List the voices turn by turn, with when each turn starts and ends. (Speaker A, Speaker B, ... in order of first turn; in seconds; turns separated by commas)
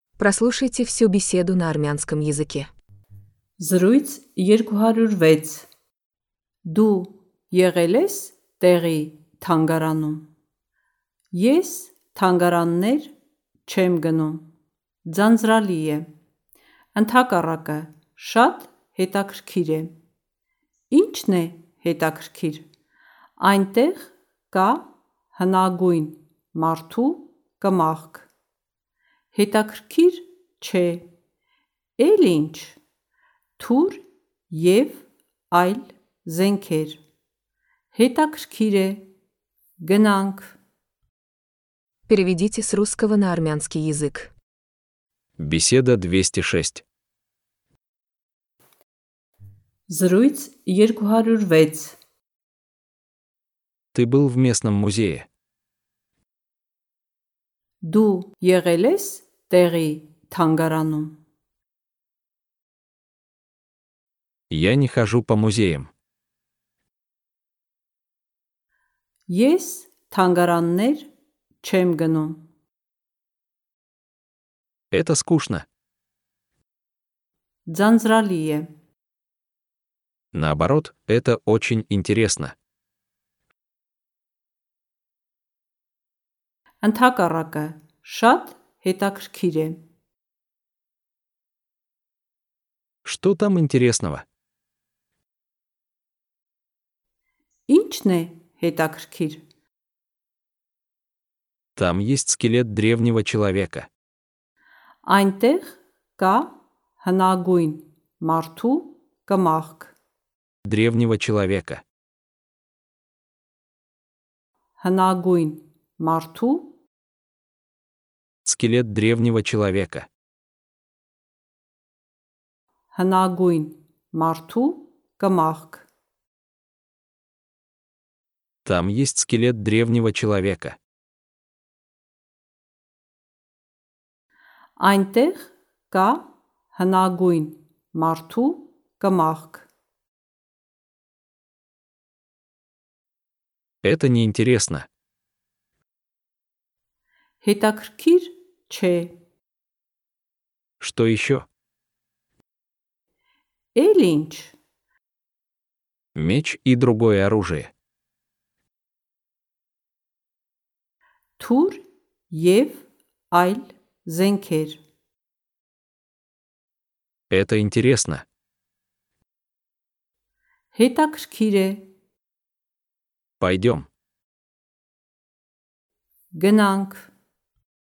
Speaker A: 0.2-2.7, Speaker B: 3.6-5.7, Speaker B: 6.7-10.3, Speaker B: 11.3-13.1, Speaker B: 13.7-14.5, Speaker B: 15.1-16.1, Speaker B: 16.9-19.9, Speaker B: 20.9-22.7, Speaker B: 23.4-28.3, Speaker B: 29.3-31.1, Speaker B: 32.0-32.8, Speaker B: 33.6-37.0, Speaker B: 37.9-39.1, Speaker B: 39.8-40.6, Speaker A: 42.1-44.3, Speaker C: 45.4-46.8, Speaker B: 49.9-52.0, Speaker C: 53.9-55.3, Speaker B: 57.8-61.2, Speaker C: 64.5-65.9, Speaker B: 69.3-71.1, Speaker B: 71.6-72.4, Speaker C: 74.9-75.7, Speaker B: 77.7-78.7, Speaker C: 80.3-82.5, Speaker B: 86.8-89.8, Speaker C: 93.0-94.2, Speaker B: 97.7-99.4, Speaker C: 101.8-103.9, Speaker B: 105.1-110.0, Speaker C: 110.7-111.8, Speaker B: 114.8-116.8, Speaker C: 118.5-120.1, Speaker B: 122.9-125.9, Speaker C: 128.7-130.8, Speaker B: 134.8-139.7, Speaker C: 143.8-144.9, Speaker B: 147.4-149.2, Speaker C: 150.8-151.5, Speaker B: 153.8-154.6, Speaker C: 156.2-157.7, Speaker B: 161.4-164.8, Speaker C: 167.3-168.2, Speaker B: 170.7-171.9, Speaker C: 173.4-173.9, Speaker B: 176.3-177.1